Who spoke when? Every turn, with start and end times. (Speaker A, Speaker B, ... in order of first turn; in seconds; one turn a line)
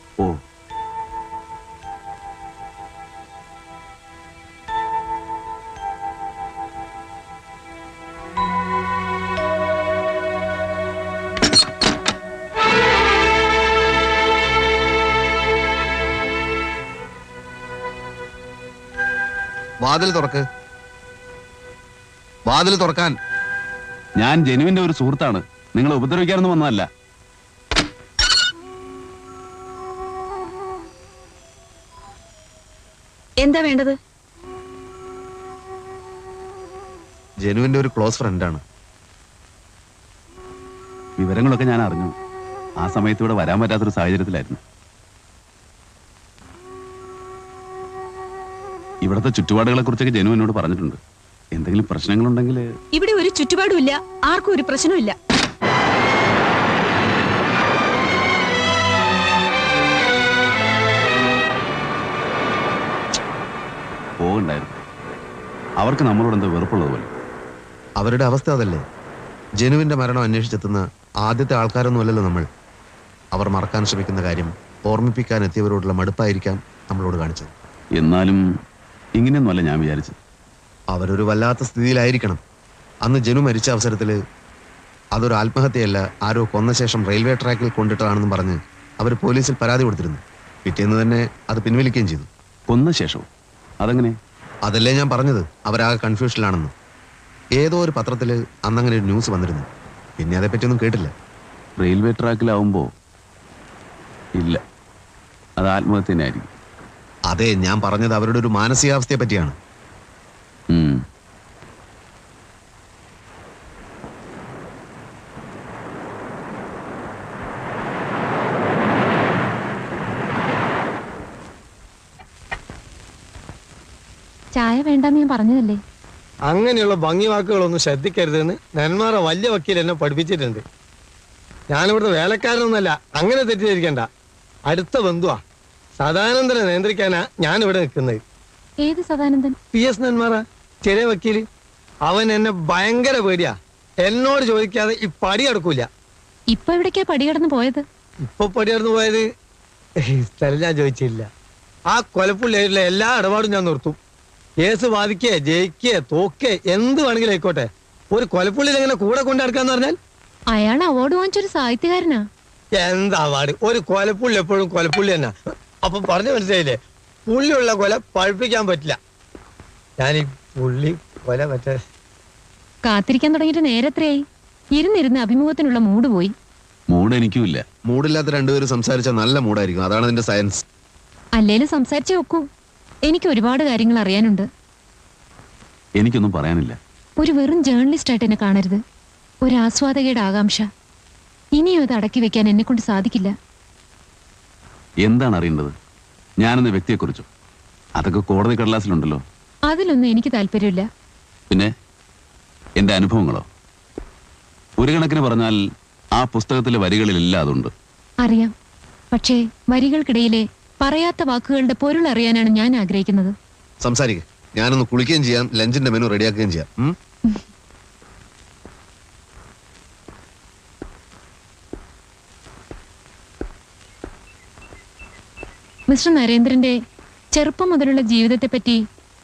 Speaker A: 19.8-20.4
Speaker A: 22.5-23.1
Speaker B: 24.2-26.9
Speaker A: 37.4-38.6
Speaker B: 41.2-42.1
Speaker B: 42.8-44.6
Speaker B: 49.0-51.0
Speaker B: 51.5-52.7
Speaker C: 53.0-55.2
Speaker B: 64.2-64.8
Speaker B: 65.8-67.1
Speaker A: 68.0-68.8
Speaker A: 69.6-72.5
Speaker A: 73.3-77.5
Speaker B: 78.0-78.4
Speaker B: 79.2-80.2
Speaker A: 80.9-82.4
Speaker A: 83.0-84.2
Speaker A: 85.1-92.3
Speaker B: 92.7-93.3
Speaker B: 93.8-94.2
Speaker A: 94.7-96.7
Speaker A: 97.6-99.7
Speaker A: 100.2-101.1
Speaker B: 101.8-102.9
Speaker B: 104.4-104.6
Speaker B: 105.6-106.5
Speaker A: 107.3-109.5
Speaker B: 110.7-111.0
Speaker D: 124.5-125.8
Speaker E: 126.5-130.6
Speaker E: 131.7-134.1
Speaker E: 134.7-135.4
Speaker E: 136.0-138.2
Speaker D: 138.8-139.6
Speaker E: 139.7-141.4
Speaker E: 142.0-145.9
Speaker D: 146.5-147.8
Speaker E: 148.3-149.2
Speaker E: 150.1-151.3
Speaker E: 151.9-154.0
Speaker E: 154.6-160.0
Speaker D: 160.5-162.2
Speaker E: 162.8-166.8
Speaker E: 167.3-169.0
Speaker E: 170.0-171.8
Speaker D: 172.8-174.2
Speaker D: 174.7-176.3
Speaker B: 176.9-177.6
Speaker A: 177.9-180.6
Speaker D: 181.4-182.5
Speaker D: 183.1-184.5
Speaker B: 186.0-186.8
Speaker D: 187.2-188.8
Speaker D: 189.4-190.7
Speaker D: 191.6-193.3
Speaker B: 195.0-195.7
Speaker B: 196.4-197.3
Speaker B: 197.9-199.2
Speaker D: 199.7-200.9
Speaker B: 202.8-203.4
Speaker B: 204.8-205.6
Speaker B: 206.1-207.7
Speaker D: 208.2-208.5
Speaker D: 209.1-213.3
Speaker A: 213.8-216.9
Speaker D: 225.9-226.8
Speaker D: 227.3-228.8